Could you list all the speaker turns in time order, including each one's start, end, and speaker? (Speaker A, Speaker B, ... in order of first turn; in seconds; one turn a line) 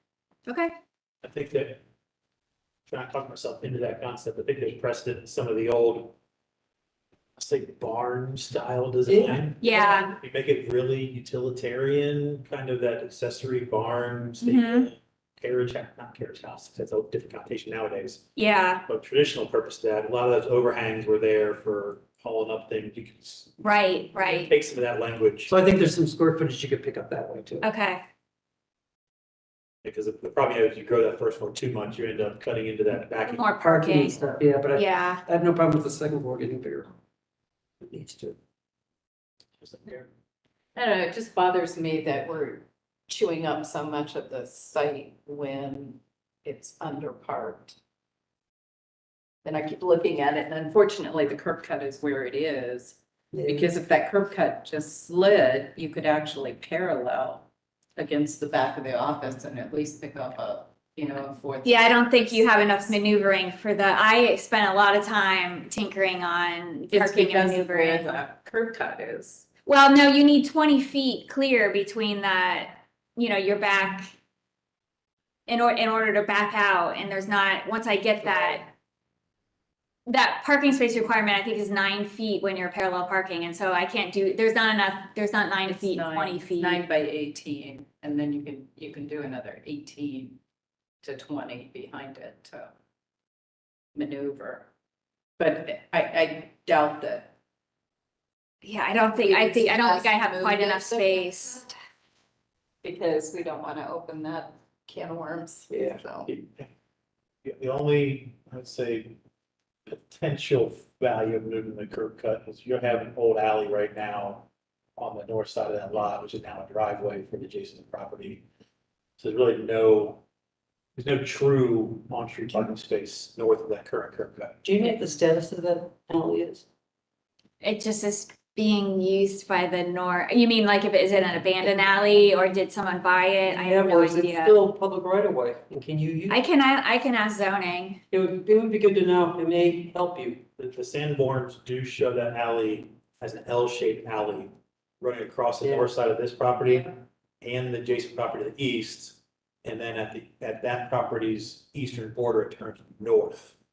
Speaker A: 0.5-0.7
Speaker B: 1.2-1.8
Speaker B: 2.9-6.2
Speaker B: 7.4-18.3
Speaker C: 9.1-9.8
Speaker A: 9.6-10.1
Speaker A: 14.4-14.9
Speaker A: 18.4-18.8
Speaker B: 18.8-23.6
Speaker A: 23.6-24.5
Speaker B: 24.1-25.6
Speaker C: 25.5-27.7
Speaker A: 27.6-28.0
Speaker B: 29.8-33.5
Speaker A: 33.3-35.2
Speaker C: 33.6-36.9
Speaker C: 37.8-38.4
Speaker B: 39.6-40.1
Speaker D: 40.8-47.8
Speaker D: 49.4-63.0
Speaker C: 53.3-53.7
Speaker A: 61.6-68.2
Speaker D: 66.9-69.5
Speaker A: 69.7-74.1
Speaker A: 75.5-78.7
Speaker A: 80.1-86.8
Speaker D: 85.7-90.4
Speaker D: 91.0-92.7
Speaker D: 94.0-94.7
Speaker D: 95.4-97.3
Speaker A: 98.6-101.7
Speaker D: 99.1-101.6
Speaker D: 102.8-106.3
Speaker C: 105.7-106.0
Speaker B: 106.3-106.7
Speaker B: 107.4-109.2
Speaker B: 109.9-118.4
Speaker B: 119.2-120.2
Speaker B: 121.0-124.6
Speaker C: 124.6-126.6
Speaker A: 127.6-134.6
Speaker C: 133.6-136.4
Speaker A: 136.3-138.0
Speaker C: 138.1-140.4
Speaker B: 140.6-153.6
Speaker C: 145.6-145.9